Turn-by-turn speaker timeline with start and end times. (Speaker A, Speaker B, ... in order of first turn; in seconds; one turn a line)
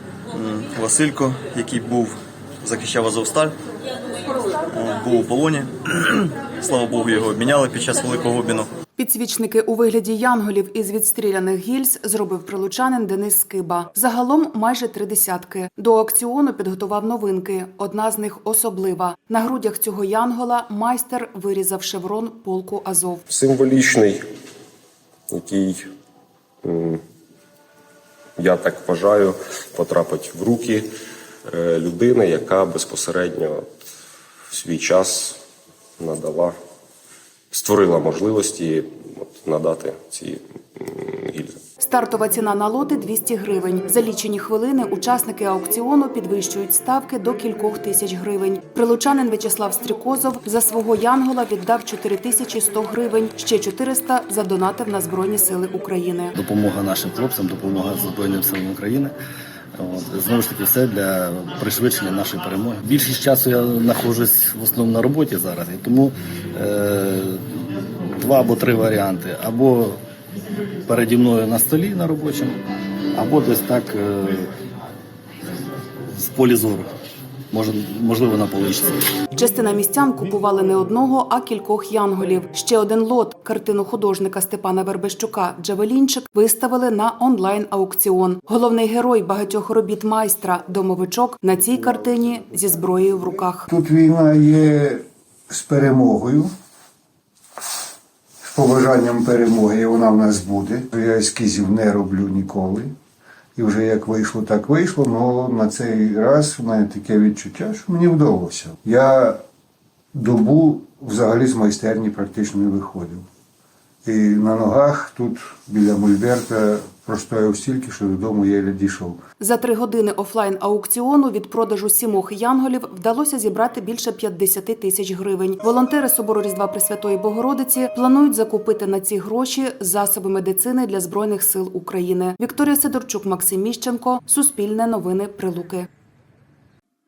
Speaker A: 0.3-3.6
Speaker A: 4.7-8.7
Speaker B: 9.0-23.2
Speaker C: 23.3-24.2
Speaker C: 25.3-25.9
Speaker C: 26.6-27.0
Speaker C: 28.4-30.9
Speaker C: 31.5-33.7
Speaker C: 34.5-35.4
Speaker C: 36.0-36.6
Speaker C: 37.5-41.6
Speaker B: 41.8-56.3
Speaker D: 56.3-59.1
Speaker D: 59.8-70.0
Speaker D: 70.9-72.6
Speaker D: 73.1-74.5
Speaker D: 76.1-76.9
Speaker D: 77.5-79.0
Speaker B: 79.3-93.7
Speaker E: 93.7-95.0
Speaker E: 95.6-96.5
Speaker E: 98.5-102.9
Speaker E: 103.6-109.4
Speaker E: 110.2-113.2
Speaker E: 114.1-119.2
Speaker B: 119.4-135.9